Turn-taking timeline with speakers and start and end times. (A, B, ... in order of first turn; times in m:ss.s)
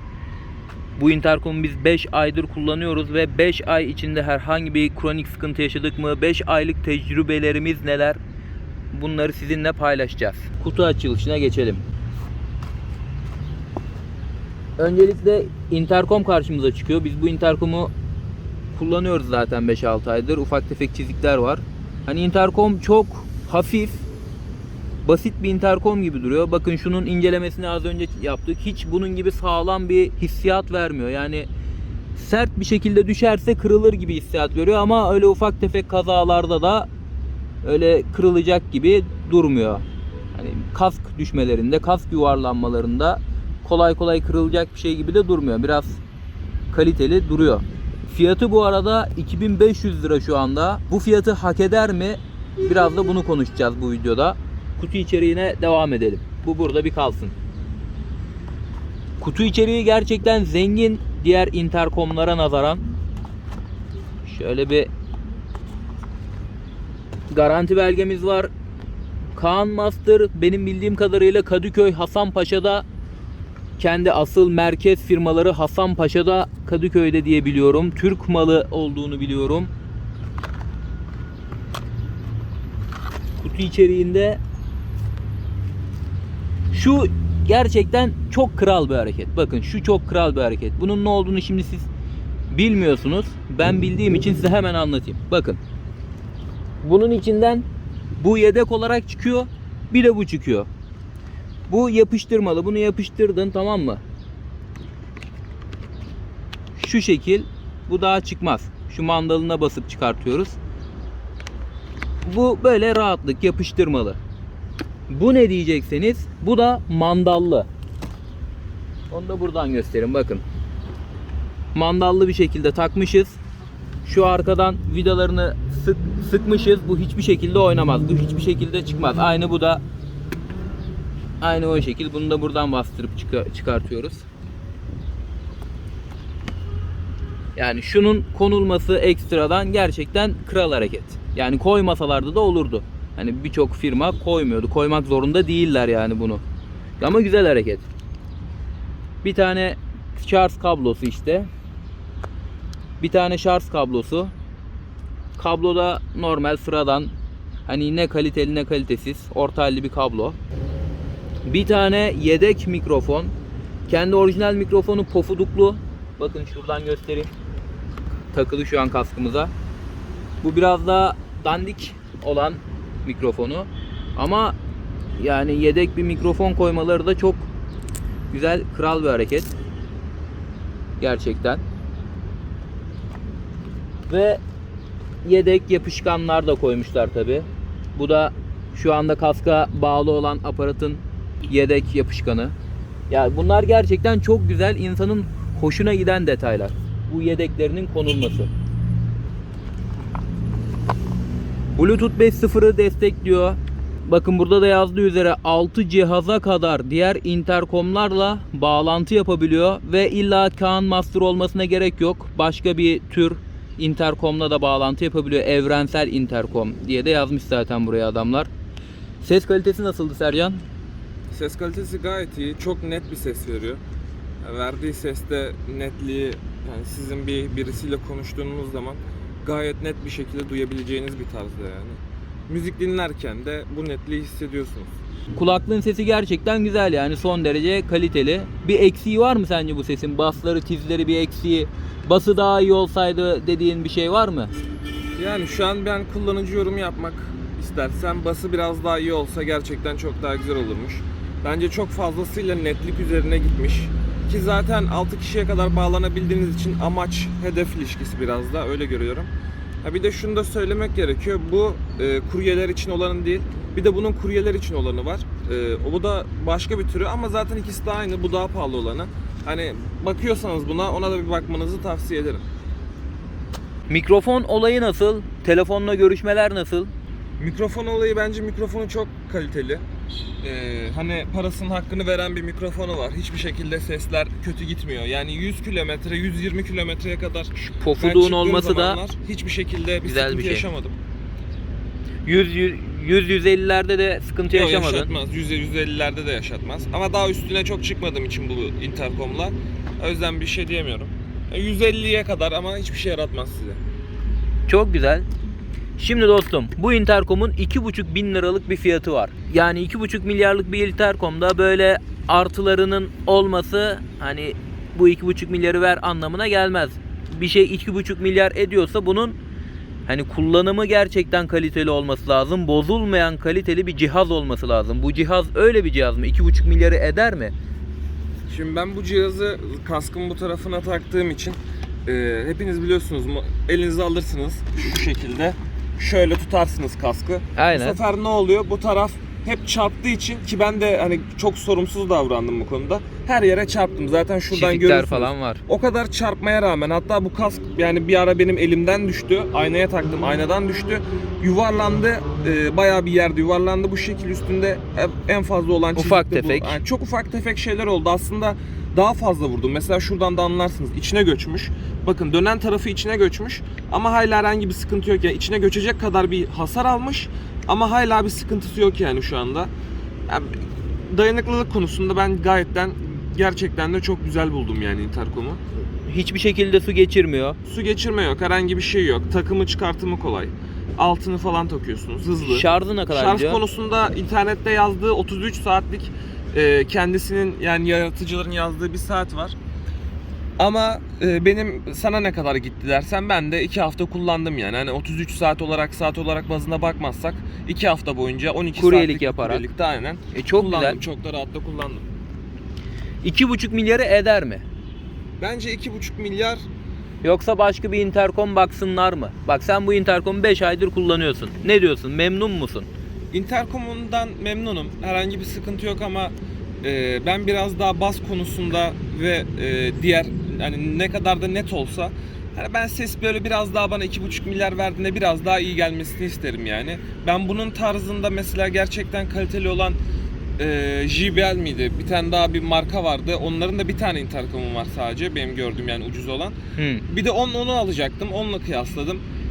0:01.0-0:08.2 A
0:08.9-0:11.9 A
0:14.8-0:17.9 A
0:18.7-0:24.0 A
0:25.0-0:31.5 A
0:32.1-0:36.9 A
0:37.6-0:39.8 A
0:40.3-0:46.0 A
0:46.7-0:57.3 A
0:59.2-1:02.9 A
1:04.2-1:04.9 A
1:07.3-1:08.5 A
1:09.4-1:12.8 A
1:13.8-1:19.7 A
1:23.4-1:24.4 A
1:26.7-1:31.9 A
1:32.5-1:35.6 A
1:36.8-1:37.6 A
1:38.2-1:40.7 A
1:41.7-1:44.0 A
1:46.8-1:50.6 A
1:52.2-1:54.2 A
1:55.1-1:57.7 A
1:59.1-2:00.4 A
2:01.7-2:03.4 A
2:04.0-2:09.8 A
2:11.4-2:14.3 A
2:17.6-2:26.4 A
2:27.0-2:27.9 A
2:29.2-2:31.5 A
2:33.0-2:34.3 A
2:35.4-2:37.1 A
2:37.7-2:40.4 A
2:41.4-2:43.3 A
2:43.9-2:47.3 A
2:48.3-2:49.5 A
2:50.4-2:54.6 A
2:55.2-2:57.5 A
2:58.3-2:59.5 A
3:01.0-3:01.6 A
3:04.1-3:04.4 A
3:05.2-3:12.5 A
3:13.1-3:18.5 A
3:21.8-3:38.5 A
3:39.2-3:40.6 A
3:41.3-3:43.8 B
3:44.4-3:54.9 B
3:55.4-4:04.5 A
4:05.2-4:19.3 B
4:19.8-4:32.4 B
4:33.9-4:36.9 A
4:37.4-4:39.8 B
4:40.4-4:51.0 B
4:47.6-4:49.0 A
4:50.0-4:50.7 A
4:52.2-4:55.1 A
4:54.5-5:03.8 B
5:04.7-5:05.2 A
5:06.0-5:19.4 A
5:20.1-5:27.5 A
5:28.5-6:09.7 B
5:37.6-5:38.0 A
5:44.5-5:45.6 A
5:55.9-5:56.8 A
6:10.3-6:15.6 B
6:16.1-6:17.6 A
6:17.7-6:29.6 B
6:22.4-6:23.6 A
6:30.6-6:42.1 B
6:38.8-6:39.6 A
6:40.3-6:41.0 A
6:43.2-6:44.6 A
6:45.4-6:46.7 B
6:47.2-6:52.9 A
6:53.3-7:10.0 B
7:10.6-7:19.2 B
7:16.8-7:17.0 A